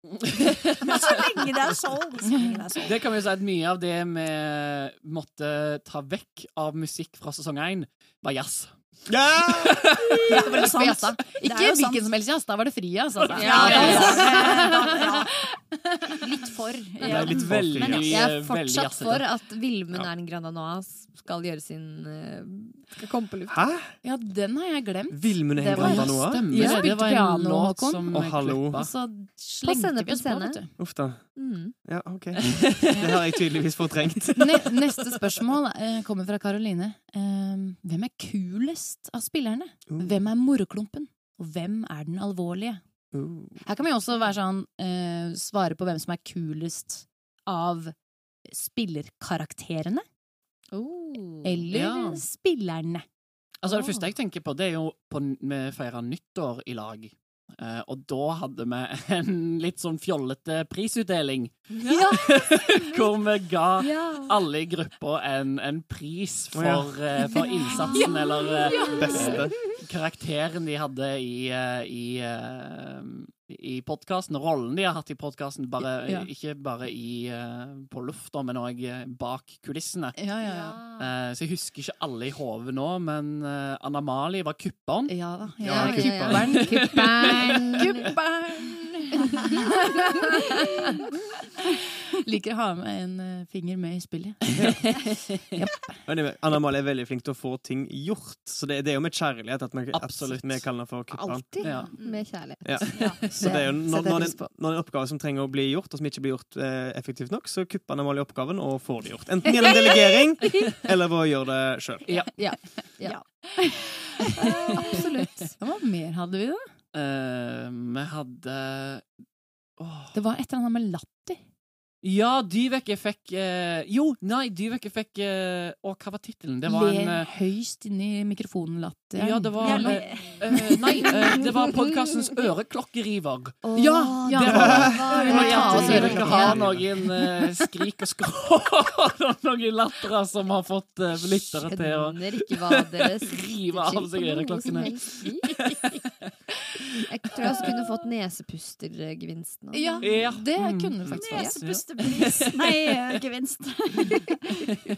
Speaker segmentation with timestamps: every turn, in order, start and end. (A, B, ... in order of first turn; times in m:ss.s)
0:00.1-0:01.2 A
0:00.8-0:03.0 B
0:02.3-0:02.6 C
0:02.8-0:10.2 A
0:09.1-0:10.2 D
0:10.2-0:12.1 B
0:10.3-0:16.2 C
0:13.3-0:15.5 B
0:13.4-0:14.5 E
0:13.4-0:14.1 A
0:16.2-0:18.2 B
0:17.0-0:19.3 A
0:17.0-0:18.2 D
0:18.1-0:23.6 E
0:23.5-0:23.9 D
0:24.0-0:30.7 C
0:25.1-0:26.5 D
0:25.7-0:26.8 E
0:25.8-0:28.9 A
0:28.1-0:28.8 D
0:29.6-0:30.8 E
0:30.8-0:34.7 D
0:31.4-0:31.8 E
0:32.4-0:32.8 A
0:32.9-0:33.2 C
0:34.4-0:42.8 C
0:39.9-0:40.2 D
0:43.1-0:43.6 D
0:43.6-0:48.0 C
0:48.5-0:50.0 C
0:50.7-0:51.7 E
0:51.4-0:53.0 C
0:51.7-0:52.2 A
0:53.6-1:20.3 A
0:53.7-0:54.1 E
1:01.8-1:03.1 E
1:03.8-1:04.4 E
1:06.5-1:06.9 D
1:07.3-1:09.8 E
1:09.0-1:09.7 D
1:15.8-1:16.3 C
1:20.2-1:20.8 C
1:20.4-1:21.1 E
1:20.9-1:25.3 A
1:25.1-1:30.8 C
1:25.6-1:28.1 E
1:25.6-1:26.4 D
1:25.8-1:27.6 A
1:32.2-1:36.0 C
1:36.1-1:41.5 D
1:39.9-1:40.7 A
1:41.1-1:44.5 E
1:41.6-1:41.9 A
1:42.0-1:42.3 B
1:42.6-1:52.1 D
1:42.9-1:43.3 B
1:43.3-1:43.6 A
1:52.1-1:52.6 A
1:52.1-1:53.5 E
1:53.0-1:54.5 B
1:54.4-1:55.3 E
1:54.8-1:56.7 C
1:56.9-1:59.1 A
1:59.8-2:00.2 A
2:00.1-2:01.4 C
2:02.0-2:07.3 A
2:06.6-2:11.1 C
2:09.2-2:13.6 A
2:09.6-2:10.7 B
2:11.6-2:12.4 E
2:13.6-2:16.6 E
2:13.8-2:17.3 C
2:14.4-2:25.9 A
2:14.5-2:16.9 D
2:15.2-2:15.9 B
2:21.6-2:25.6 E
2:27.0-2:30.1 E
2:29.7-2:31.8 C
2:30.0-2:33.0 A
2:31.1-2:34.7 B
2:31.3-2:31.6 E